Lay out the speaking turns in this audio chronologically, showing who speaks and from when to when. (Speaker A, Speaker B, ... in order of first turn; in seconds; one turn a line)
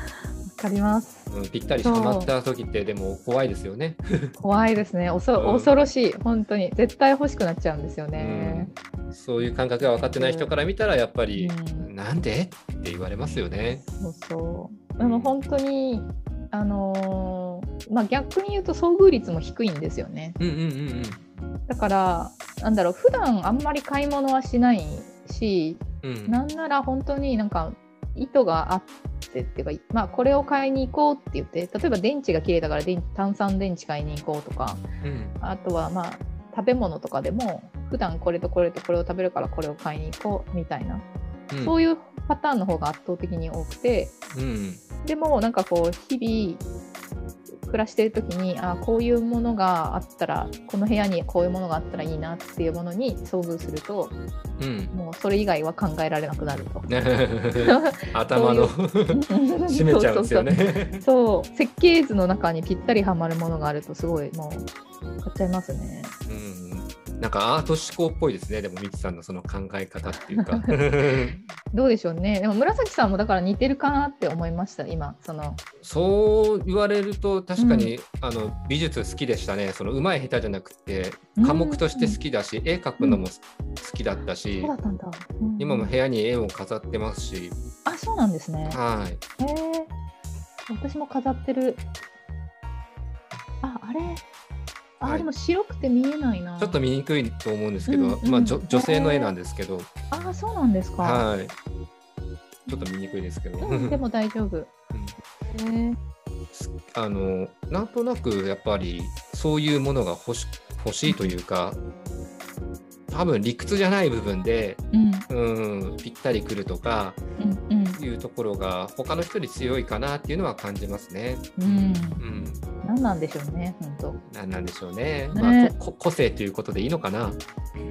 Speaker A: 0.5-1.3
Speaker B: 1.3-4.3
Speaker A: 1.8-2.3
Speaker A: 4.4-8.7
Speaker B: 5.3-5.7
Speaker B: 8.2-13.8
Speaker A: 10.1-10.5
Speaker A: 11.3-11.9
Speaker A: 13.7-20.4
Speaker B: 15.0-15.4
Speaker B: 20.4-21.2
Speaker A: 21.7-34.8
Speaker B: 26.0-26.4
Speaker B: 35.0-35.4
Speaker A: 35.4-41.1
Speaker B: 41.5-41.8
Speaker A: 41.6-44.2
Speaker B: 44.3-44.8
Speaker A: 45.0-46.7
Speaker A: 47.6-54.2
Speaker B: 54.6-55.0
Speaker A: 54.9-56.9
Speaker B: 56.9-61.0
Speaker A: 57.6-64.7
Speaker A: 65.2-66.2
Speaker B: 66.3-71.4
Speaker A: 70.2-70.8
Speaker A: 71.7-75.6
Speaker B: 75.8-84.7
Speaker A: 77.6-77.9
Speaker A: 81.4-82.2
Speaker A: 84.6-85.9
Speaker B: 85.6-87.6
Speaker A: 87.9-88.8
Speaker B: 88.7-89.2
Speaker A: 89.4-89.9
Speaker A: 90.7-91.8
Speaker A: 93.6-94.2
Speaker A: 95.0-96.8
Speaker B: 96.6-99.9
Speaker A: 97.9-99.3
Speaker A: 100.1-101.2
Speaker B: 101.0-101.6
Speaker B: 102.7-104.0
Speaker A: 103.6-104.7
Speaker A: 105.5-106.0
Speaker B: 106.5-111.8
Speaker A: 111.1-111.4
Speaker B: 113.1-117.2
Speaker A: 114.9-115.2
Speaker A: 117.4-118.0
Speaker B: 117.9-122.6
Speaker A: 121.6-122.2
Speaker A: 122.8-124.2
Speaker B: 124.3-127.4
Speaker A: 125.3-125.7